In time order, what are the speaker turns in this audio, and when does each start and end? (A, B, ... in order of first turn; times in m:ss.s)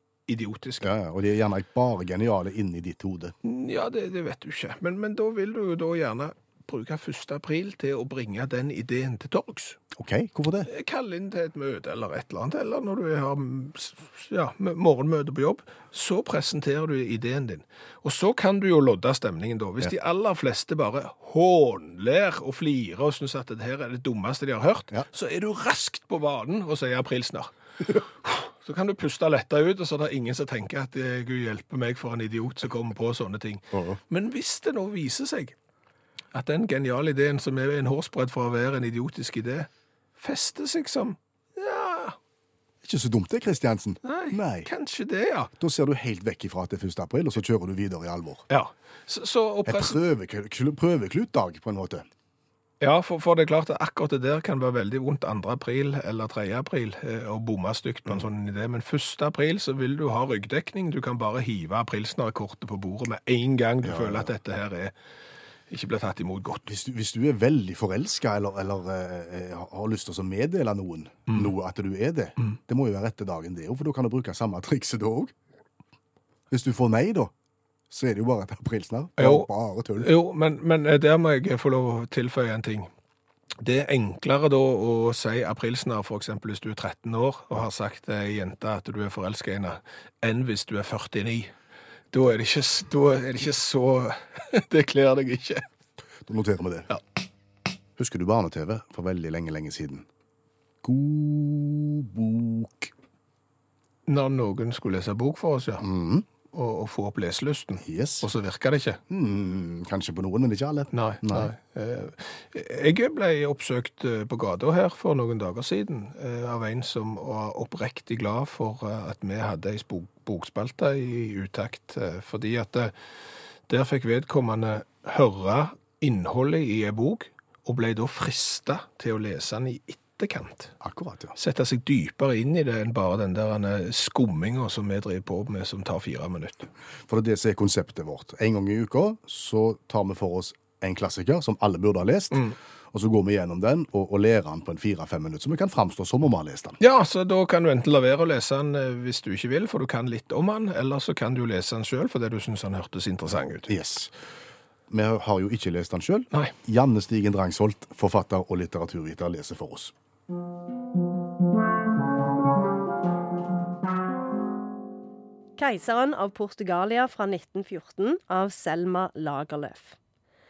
0:00.3-0:00.9 A
0:00.8-0:03.3 B
0:03.4-0:09.8 A
0:09.9-0:10.7 B
0:10.7-0:35.6 A
0:33.7-0:34.0 B
0:36.3-0:42.2 A
0:42.8-0:44.7 B
0:44.0-0:45.5 A
0:45.6-0:48.5 B
0:48.5-0:50.0 A
0:49.7-0:52.1 B
0:52.8-1:04.9 A
1:03.8-1:04.3 B
1:05.7-1:06.6 A
1:06.7-1:15.3 B
1:16.5-1:17.3 B
1:17.9-1:20.1 B
1:19.2-1:19.5 A
1:20.0-1:22.9 A
1:23.6-1:31.5 A
1:32.1-1:35.6 A
1:36.2-1:36.9 B
1:38.0-1:40.1 B
1:40.8-1:42.9 B
1:44.1-1:45.8 A
1:45.8-1:46.3 B
1:46.5-1:49.0 A
1:47.8-1:48.3 B
1:49.1-1:51.5 B
1:50.9-2:02.9 A
2:03.7-2:10.7 A
2:10.8-2:11.4 B
2:11.4-2:16.7 A
2:17.1-2:26.8 B
2:26.8-2:33.7 A
2:33.7-2:34.1 B
2:34.9-2:39.9 B
2:45.6-2:50.0 C